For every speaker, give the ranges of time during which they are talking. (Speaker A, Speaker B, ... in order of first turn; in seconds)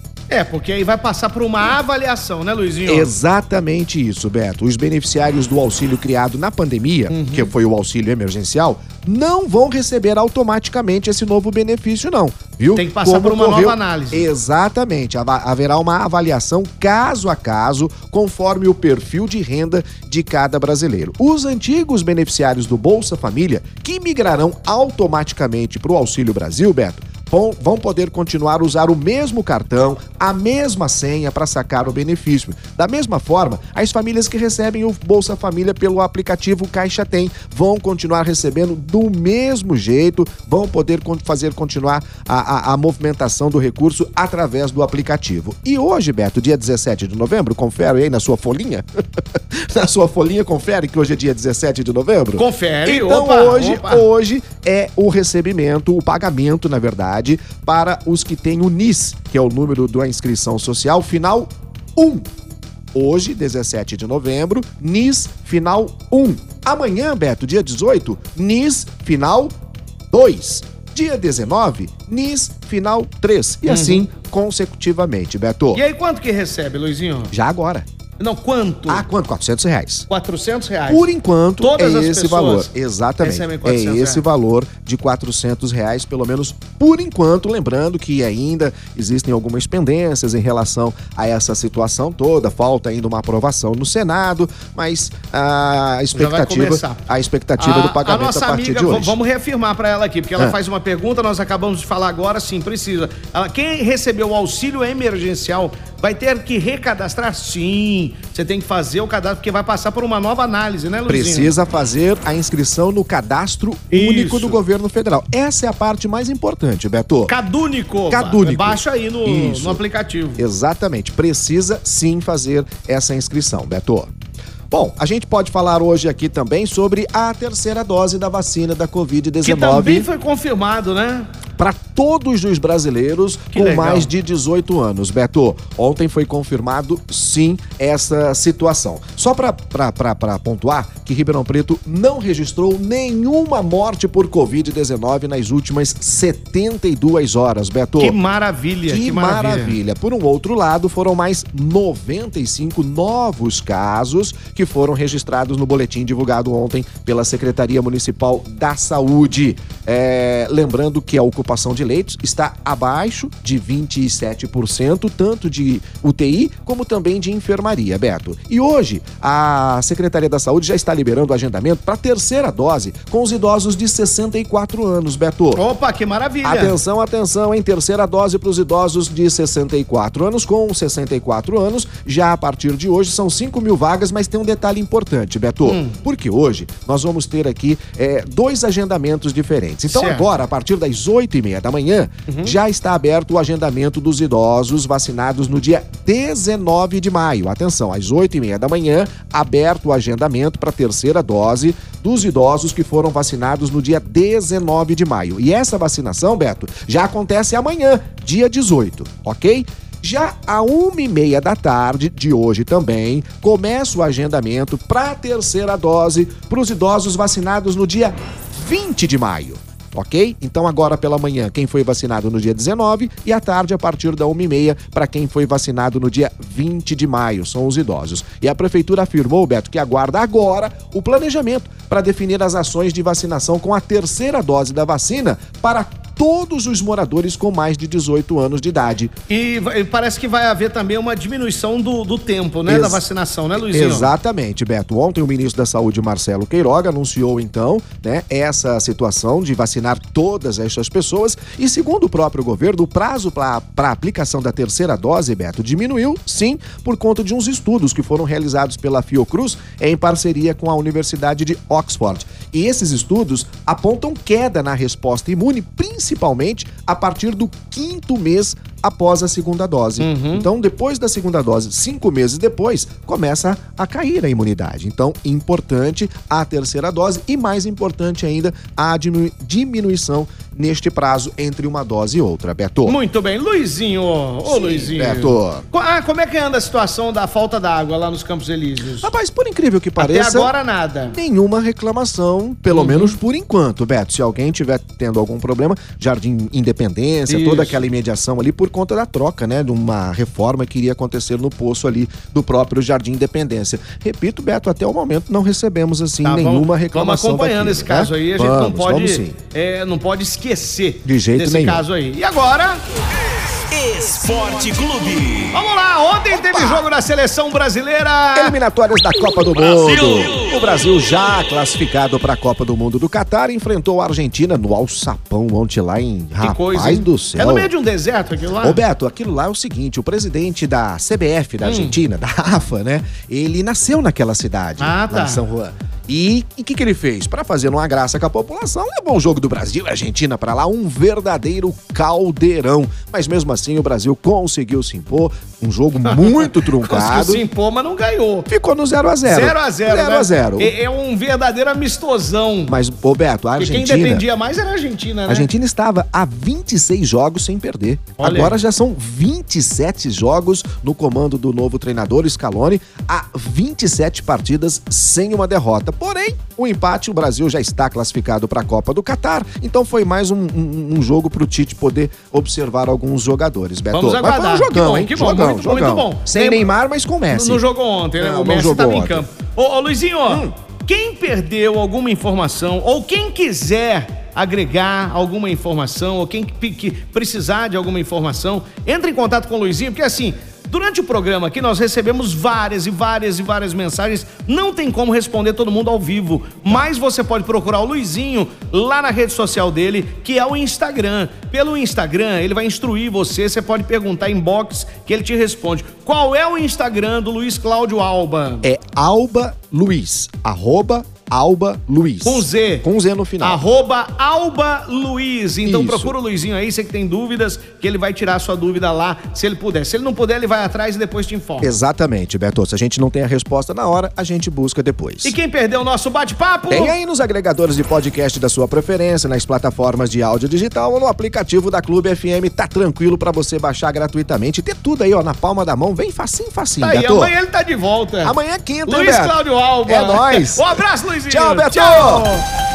Speaker A: 0.3-3.1, 7.1-7.5, 12.8-14.3, 52.4-54.1, 73.7-74.1, 75.7-77.3, 78.2-79.1, 80.1-81.1, 81.6-82.7, 83.2-84.3, 96.1-97.0, 97.6-111.5, 113.9-114.6, 117.3-120.5, 129.4-131.3, 133.5-134.1, 148.0-149.8, 175.5-176.8, 185.7-186.0, 189.9-190.3, 192.3-192.6, 239.3-244.1, 270.0-270.5, 282.9-289.1, 290.0-291.2, 292.7-293.2, 297.3-297.9, 306.2-312.8, 315.5-318.6, 326.4-328.8, 331.6-332.0, 334.8-335.4, 346.1-348.5, 349.2-352.8, 353.6-355.5, 358.2-358.6, 373.9-376.6, 377.3-408.7, 412.2-412.9, 413.4-421.7, 425.2-426.9, 436.8-442.5
Speaker B: 2.9-48.9, 49.4-62.3, 62.9-69.5, 70.1-75.8, 77.3-77.9, 78.9-80.1, 80.9-99.2, 111.1-117.3, 118.1-119.8, 120.4-124.1, 124.7-130.1, 131.6-148.2, 148.9-175.6, 176.4-239.1, 242.7-243.0, 243.7-283.0, 284.4-285.7, 289.0-290.5, 291.1-309.4, 311.1-311.8, 316.3-316.9, 318.4-327.7, 328.6-347.4, 348.5-350.8, 352.7-354.3, 355.3-377.6, 378.2-379.2, 408.6-413.6, 415.6-416.1, 421.6-425.4, 426.7-437.3, 438.2-442.3
Speaker C: 313.7-315.6, 319.6-320.6